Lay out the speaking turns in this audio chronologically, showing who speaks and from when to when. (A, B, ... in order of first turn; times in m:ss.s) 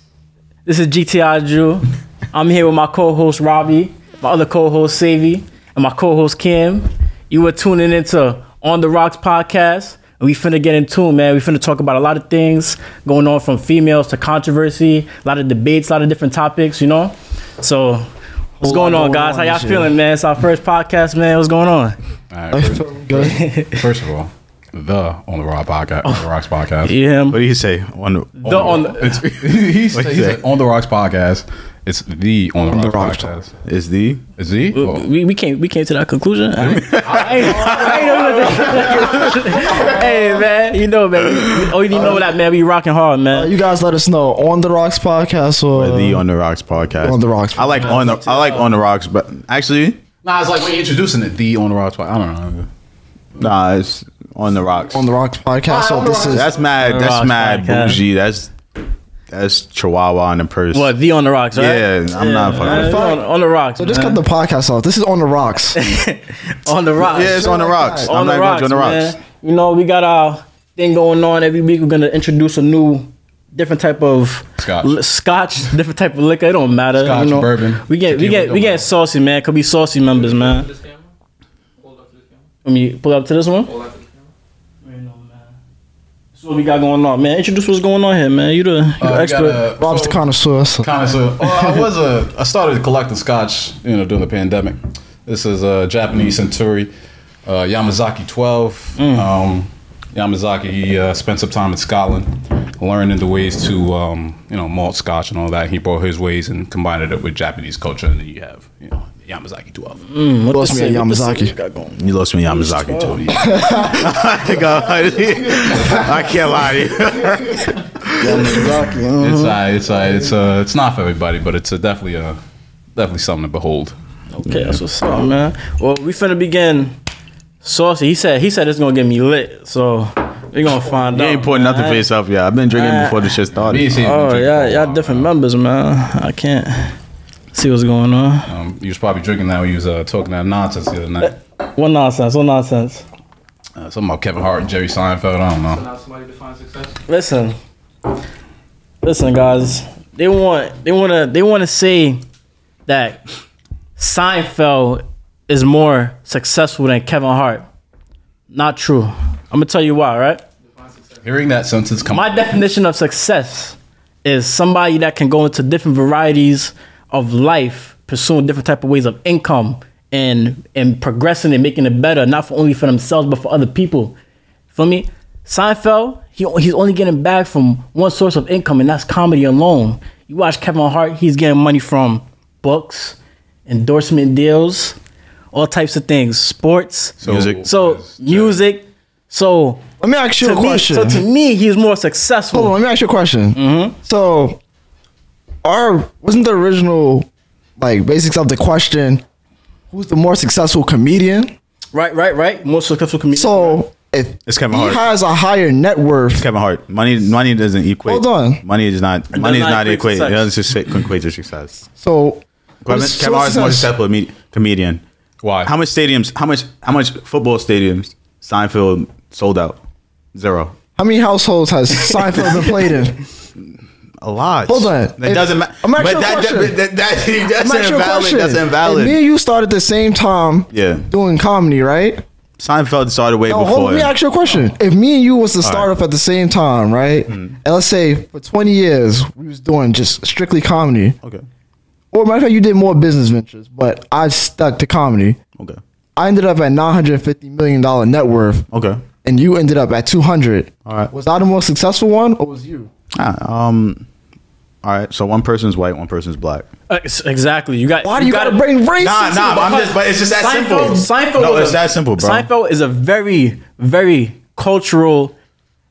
0:00.6-0:18.1 A
0:18.6-0:19.9 B
0:18.6-0:22.0 A
0:22.3-0:26.9 C
0:22.5-0:23.4 B
0:23.1-0:23.8 A
0:26.8-0:27.4 A
0:27.3-0:30.4 D
0:28.4-0:29.2 A
0:28.4-0:33.5 C
0:32.6-0:33.3 B
0:33.6-0:34.2 D
0:34.4-0:35.0 C
0:34.7-0:43.5 A
0:36.6-0:38.9 C
0:36.8-0:38.1 D
0:38.5-0:40.4 B
0:41.9-0:42.3 B
0:43.3-0:46.2 B
0:45.7-0:50.0 D
0:47.0-0:48.6 B
0:48.0-0:48.2 C
0:50.2-0:52.7 C
0:53.4-0:55.0 D
0:54.9-0:56.5 B
0:55.6-0:56.6 C
0:56.3-0:58.5 D
0:56.7-0:58.0 A
0:59.3-1:00.9 D
1:00.7-1:04.2 A
1:01.5-1:03.1 D
1:02.6-1:03.2 B
1:03.8-1:05.8 B
1:05.7-1:20.7 A
1:07.0-1:09.2 D
1:07.1-1:08.1 B
1:14.6-1:15.0 C
1:16.9-1:18.9 C
1:20.2-1:21.1 E
1:21.8-1:22.5 E
1:22.6-1:23.7 A
1:23.6-1:24.3 E
1:24.8-1:25.5 A
1:26.3-1:29.6 A
1:29.0-1:30.2 C
1:29.8-1:30.9 B
1:30.8-1:36.9 C
1:31.4-1:31.8 B
1:37.4-1:50.0 C
1:39.0-1:39.3 A
1:50.1-1:53.6 A
1:50.5-1:51.5 B
1:52.0-1:58.6 D
1:53.3-1:54.1 B
1:53.3-1:53.9 C
1:55.6-1:55.9 B
1:55.7-1:56.0 C
1:58.2-1:59.6 A
1:59.2-2:02.4 C
2:02.9-2:03.9 C
2:04.3-2:06.9 A
2:04.5-2:04.8 D
2:07.6-2:12.1 A
2:11.0-2:13.9 D
2:12.7-2:13.3 A
2:13.5-2:15.3 C
2:13.9-2:16.9 A
2:17.5-2:18.5 A
2:18.5-2:21.3 C
2:21.2-2:23.0 A
2:23.8-2:25.8 C
2:25.7-2:27.0 E
2:27.1-2:27.6 A
2:29.0-2:32.2 A
2:32.8-2:33.2 A
2:34.0-2:37.6 A
2:38.5-2:40.4 A
2:40.6-2:41.2 E
2:41.2-2:42.5 C
2:42.1-2:54.2 A
2:54.7-3:05.0 A
3:05.5-3:09.8 A
3:07.2-3:08.6 C
3:07.2-3:07.6 D
3:10.0-3:11.2 B
3:10.4-3:12.7 A
3:12.5-3:14.6 B
3:13.5-3:14.0 A
3:15.6-3:17.3 B
3:17.8-3:19.2 B
3:19.9-3:21.5 B
3:21.9-3:23.8 A
3:23.3-3:26.4 B
3:24.5-3:25.0 D
3:26.4-3:31.8 D
3:28.0-3:28.6 B
3:29.3-3:30.5 A
3:32.0-3:33.9 B
3:32.8-3:35.0 D
3:35.4-3:35.7 C
3:35.6-3:39.8 D
3:40.3-3:40.7 D
3:41.0-3:43.2 B
3:44.2-3:49.2 D
3:44.6-3:46.7 B
3:47.6-3:52.2 B
3:50.7-3:51.0 D
3:52.6-3:54.1 D
3:53.4-4:01.2 B
3:55.6-3:55.9 D
3:57.3-3:57.5 D
4:02.1-4:05.4 B
4:06.2-4:08.6 B
4:08.7-4:09.0 D
4:09.2-4:12.9 B
4:10.8-4:11.1 D
4:13.1-4:14.0 D
4:14.8-4:16.7 D
4:16.9-4:18.6 A
4:18.0-4:19.7 B
4:19.0-4:22.5 D
4:19.4-4:25.3 A